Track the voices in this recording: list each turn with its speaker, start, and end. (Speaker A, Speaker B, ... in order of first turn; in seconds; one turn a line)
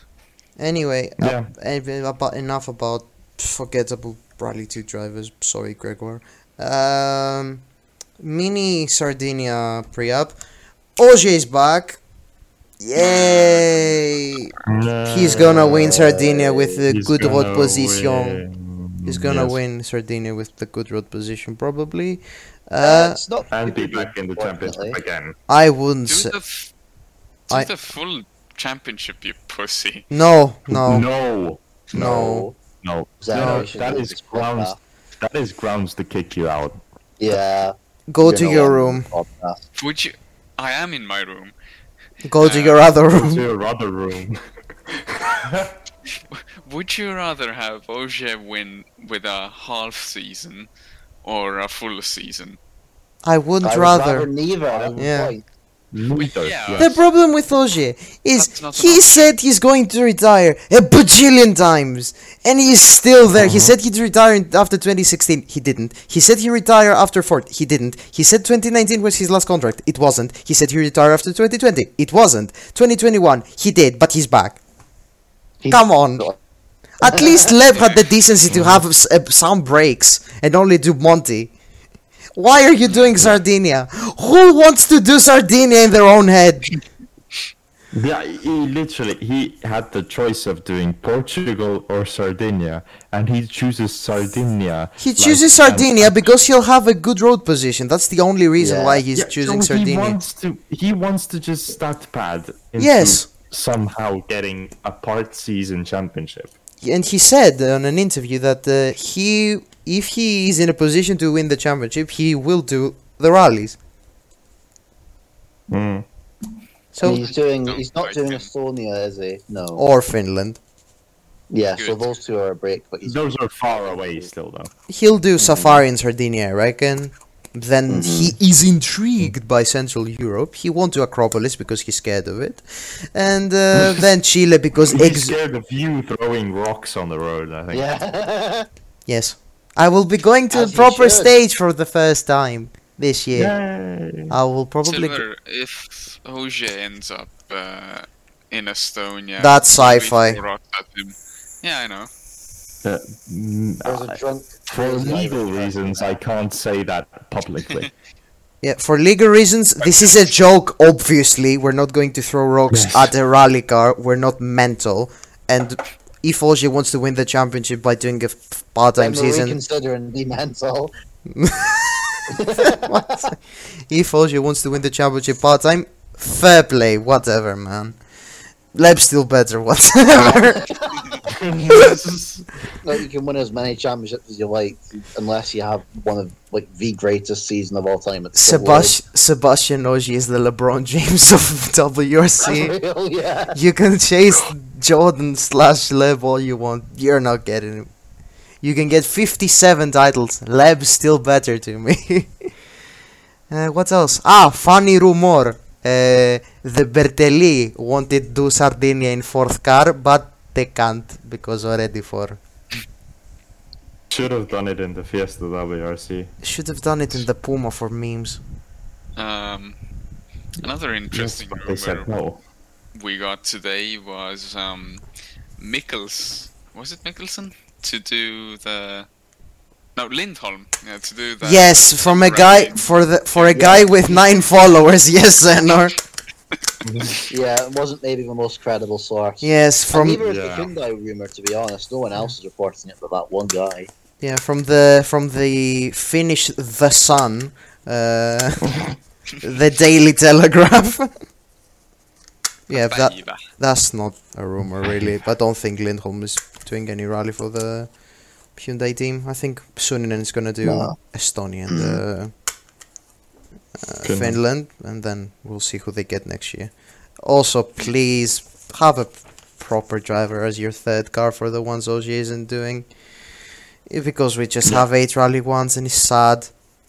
Speaker A: 0.6-7.6
Speaker B: 1.2-1.5
Speaker A: 8.2-10.4
Speaker A: 11.0-12.0
Speaker A: 12.8-14.5
Speaker C: 12.9-14.0
Speaker B: 14.7-16.0
Speaker A: 15.1-18.4
Speaker D: 15.6-16.9
Speaker B: 16.9-19.6
Speaker A: 19.1-23.2
Speaker D: 22.8-25.0
Speaker B: 23.5-25.4
Speaker A: 25.5-26.3
Speaker C: 26.1-26.7
Speaker C: 27.5-30.1
Speaker A: 30.1-31.1
Speaker B: 30.7-31.6
Speaker A: 31.9-32.5
Speaker D: 31.9-32.6
Speaker B: 32.8-37.4
Speaker D: 33.2-34.8
Speaker A: 33.3-33.7
Speaker D: 37.2-39.6
Speaker A: 38.1-39.1
Speaker C: 39.8-41.5
Speaker A: 42.3-43.5
Speaker C: 42.4-42.8
Speaker B: 43.1-45.8
Speaker C: 46.3-50.7
Speaker C: 51.2-52.6
Speaker A: 53.2-54.3
Speaker D: 53.6-55.4
Speaker B: 54.7-55.0
Speaker A: 55.0-55.3
Speaker B: 55.9-57.0
Speaker C: 56.2-57.0
Speaker A: 56.8-74.6
Speaker C: 58.4-59.3
Speaker B: 63.4-63.7
Speaker D: 75.6-76.4
Speaker A: 75.7-76.3
Speaker A: 77.0-81.5
Speaker B: 78.5-78.8
Speaker A: 82.4-86.7
Speaker C: 82.9-83.2
Speaker B: 87.9-96.3
Speaker A: 95.0-100.2
Speaker D: 98.6-99.0
Speaker B: 99.1-106.5
Speaker A: 102.8-103.3
Speaker A: 106.8-113.8
Speaker B: 115.7-116.1
Speaker A: 116.9-117.2
Speaker C: 117.0-118.5
Speaker D: 117.0-119.8
Speaker A: 119.8-120.6
Speaker D: 121.5-124.3
Speaker C: 121.8-122.2
Speaker B: 123.0-124.7
Speaker A: 124.9-135.4
Speaker D: 125.4-125.8
Speaker D: 127.9-128.3
Speaker B: 134.9-137.9
Speaker D: 137.7-138.7
Speaker A: 139.1-143.6
Speaker D: 140.5-141.3
Speaker B: 143.3-144.3
Speaker A: 144.3-145.2
Speaker C: 144.8-152.1
Speaker A: 149.4-150.4
Speaker B: 152.8-157.9
Speaker D: 153.8-156.2
Speaker A: 158.6-169.6
Speaker C: 159.8-160.1
Speaker B: 162.7-163.1
Speaker D: 169.0-170.9
Speaker A: 171.3-178.0
Speaker D: 172.3-173.3
Speaker A: 178.7-180.7
Speaker D: 180.1-181.2
Speaker B: 181.3-182.5
Speaker D: 182.8-189.0
Speaker A: 188.4-192.8
Speaker D: 192.4-193.6
Speaker A: 193.5-197.9
Speaker A: 198.6-202.3
Speaker A: 203.5-212.4
Speaker B: 214.1-216.3
Speaker A: 216.4-218.4
Speaker C: 219.2-219.8
Speaker C: 220.6-222.1
Speaker B: 221.1-222.4
Speaker C: 222.9-225.0
Speaker C: 225.6-229.1
Speaker C: 230.0-233.9
Speaker A: 231.4-236.0
Speaker D: 233.5-234.1
Speaker B: 236.8-237.2
Speaker D: 237.3-243.9
Speaker A: 239.4-240.2
Speaker B: 240.2-240.7
Speaker A: 244.2-248.8
Speaker A: 249.4-251.1
Speaker C: 252.7-253.4
Speaker A: 252.7-258.0
Speaker A: 258.5-262.3
Speaker D: 260.6-261.0
Speaker D: 261.7-262.0
Speaker A: 263.8-272.9
Speaker B: 264.1-264.4
Speaker A: 273.9-276.5